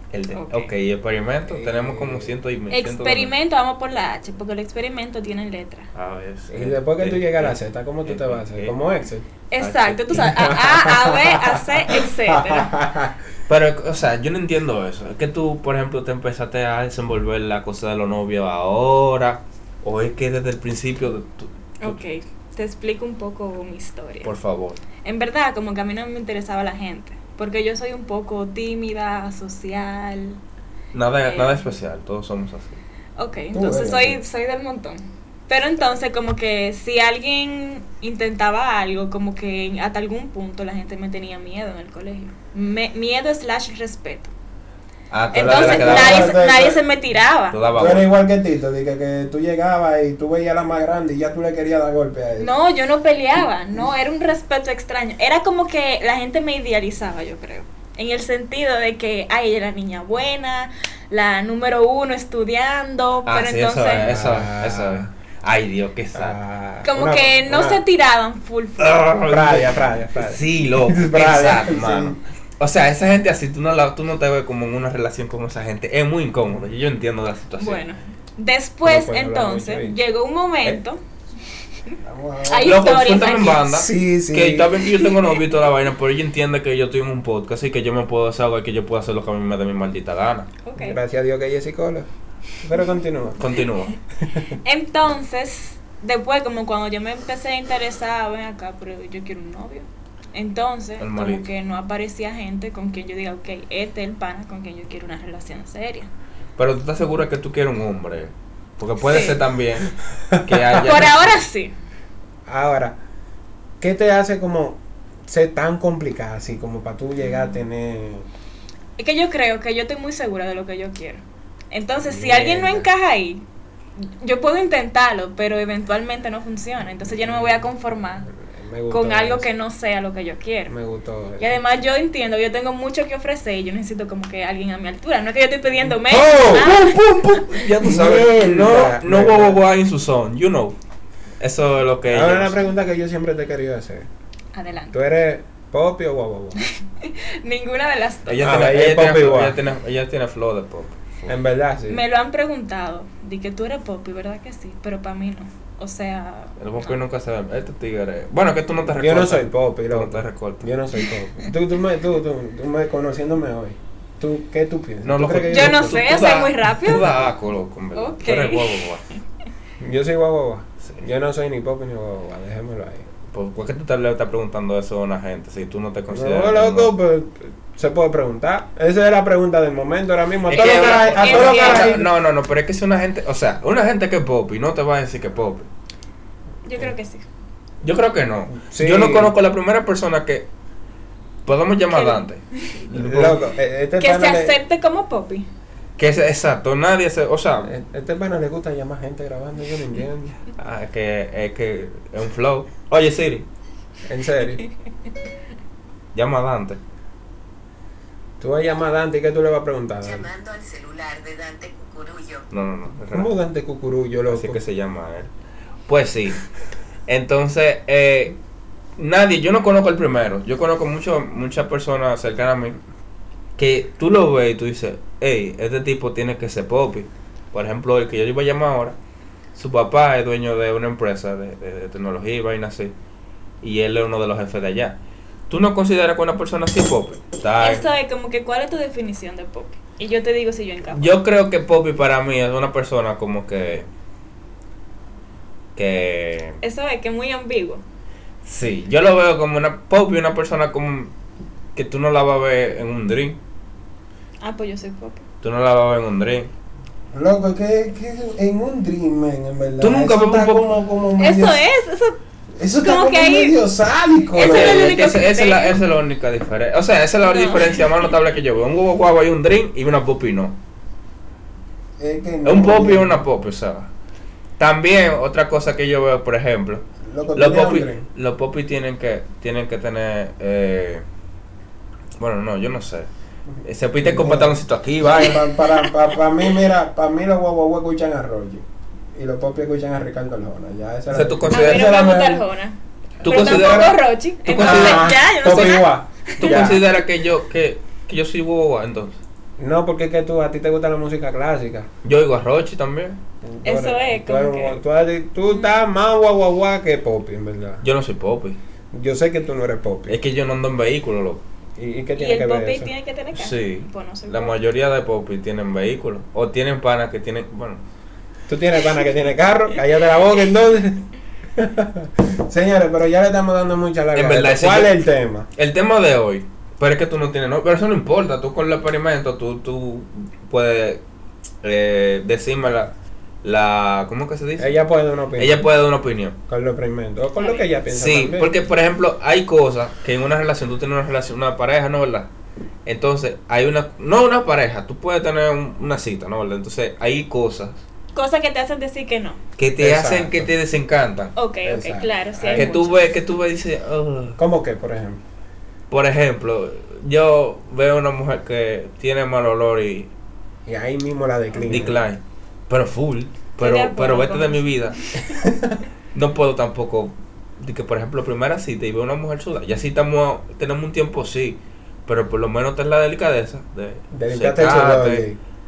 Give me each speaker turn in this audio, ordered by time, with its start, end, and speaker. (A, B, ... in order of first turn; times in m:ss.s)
0:00.1-0:03.3 A
0:00.3-0:00.7 B
0:01.5-0:02.3 C
0:02.7-0:05.9 B
0:05.9-0:08.8 A
0:06.5-0:09.2 C
0:09.5-0:12.7 B
0:09.6-0:10.5 A
0:10.2-0:13.2 C
0:13.5-0:22.0 A
0:21.8-0:24.3 B
0:24.2-0:24.8 A
0:25.0-0:30.4 B
0:30.9-0:32.8 A
0:31.2-0:31.7 B
0:33.2-0:44.3 B
0:33.5-0:34.2 C
0:45.1-0:46.3 A
0:45.3-0:46.8 C
0:45.3-0:47.6 B
0:47.5-0:48.1 A
0:47.7-0:52.5 C
0:52.4-1:04.1 B
1:03.2-1:06.4 A
1:03.9-1:05.1 C
1:06.1-1:07.8 C
1:06.8-1:09.0 B
1:08.8-1:17.8 A
1:09.2-1:12.2 C
1:17.6-1:21.0 B
1:18.8-1:20.0 C
1:22.0-1:23.0 C
1:22.4-1:23.6 B
1:22.6-1:30.5 A
1:23.6-1:24.8 C
1:30.6-1:31.0 B
1:30.8-1:32.1 C
1:32.6-1:33.4 C
1:33.4-1:33.9 A
1:34.6-1:46.1 B
1:41.0-1:41.5 A
1:46.6-1:51.4 A
1:49.0-1:49.4 B
1:50.4-1:50.9 C
1:50.8-1:51.7 B
1:52.5-1:53.0 C
1:53.8-1:58.3 C
1:59.0-2:03.4 B
2:02.0-2:02.9 C
2:04.0-2:08.3 B
2:07.1-2:07.6 C
2:08.4-2:09.5 C
2:08.9-2:10.7 B
2:10.7-2:11.5 C
2:11.4-2:17.6 B
2:16.1-2:20.7 A
2:16.3-2:16.6 C
2:17.8-2:19.6 C
2:21.4-2:22.6 A
2:22.1-2:24.1 C
2:24.5-2:24.9 B
2:24.9-2:26.6 C
2:27.0-2:28.6 B
2:28.3-2:31.3 A
2:28.4-2:29.6 C
2:31.3-2:32.0 C
2:31.9-2:36.9 B
2:36.6-2:40.7 A
2:38.9-2:46.0 C
2:45.0-2:49.0 A
2:45.5-2:47.1 B
2:47.9-2:48.8 B
2:49.8-2:53.1 C
2:53.3-2:56.9 A
2:56.1-3:02.1 C
3:00.4-3:05.7 A
3:01.0-3:02.0 B
3:06.6-3:07.2 B
3:07.8-3:10.4 A
3:08.5-3:09.3 C
3:11.4-3:13.5 A
3:11.9-3:12.7 B
3:12.9-3:14.6 C
3:14.0-3:15.4 B
3:16.0-3:17.7 A
3:17.6-3:20.4 C
3:20.6-3:23.4 A
3:24.0-3:24.6 C
3:26.1-3:26.8 A
3:28.4-3:30.3 C
3:30.0-3:32.4 D
3:32.5-3:33.3 A
3:33.1-3:34.6 C
3:34.3-3:35.3 A
3:35.9-3:36.4 A
3:37.1-3:38.4 A
3:39.0-3:42.8 A
3:43.6-3:49.0 A
3:49.5-3:52.9 A
3:53.6-3:55.0 A
3:55.5-3:57.9 A
3:57.6-4:01.2 B
4:00.9-4:03.8 A
4:05.7-4:06.6 A
4:06.6-4:07.8 B
4:08.4-4:11.1 A
4:11.7-4:13.4 A
4:14.4-4:15.2 B
4:15.4-4:16.5 A
4:17.1-4:21.6 C
4:19.8-4:20.7 A
4:21.2-4:22.2 B
4:22.6-4:25.0 C
4:22.8-4:23.6 B
4:24.3-4:25.8 B
4:24.4-4:30.6 A
4:27.2-4:28.1 B
4:32.0-4:33.2 C
4:32.4-4:33.9 A
4:34.6-4:36.8 A
4:37.0-4:38.0 C
4:37.3-4:41.0 A
4:42.2-4:43.1 A
4:43.6-4:45.6 A
4:44.0-4:52.4 C
4:51.1-4:52.0 A
4:51.5-4:56.6 B
4:53.2-4:54.0 C
4:53.2-4:55.8 A
4:54.5-4:56.9 C
4:56.4-4:59.2 A
4:59.6-5:01.9 C
5:02.0-5:03.2 A
5:03.4-5:07.8 C
5:03.6-5:04.8 B
5:05.4-5:05.7 B
5:07.8-5:08.6 A
5:08.9-5:10.2 C
5:10.1-5:11.4 A
5:11.8-5:12.9 C
5:12.2-5:14.5 B
5:13.3-5:17.8 A
5:18.5-5:25.5 C
5:24.1-5:24.9 A
5:25.6-5:31.0 A
5:31.6-5:34.8 A
5:34.6-5:35.6 C
5:35.4-5:36.4 A
5:36.5-5:38.5 C
5:37.4-5:37.6 B
5:37.9-5:42.3 A
5:42.8-5:47.8 A
5:48.1-5:49.4 B
5:49.6-5:51.3 A
5:49.8-5:50.5 C
5:51.4-5:53.0 B
5:51.6-5:52.8 C
5:52.5-5:54.4 A
5:54.4-5:55.2 C
5:55.9-6:00.1 A
6:00.6-6:02.0 C
6:01.6-6:05.0 A
6:03.6-6:05.4 B
6:05.3-6:05.8 C
6:06.1-6:15.2 A
6:14.1-6:15.4 C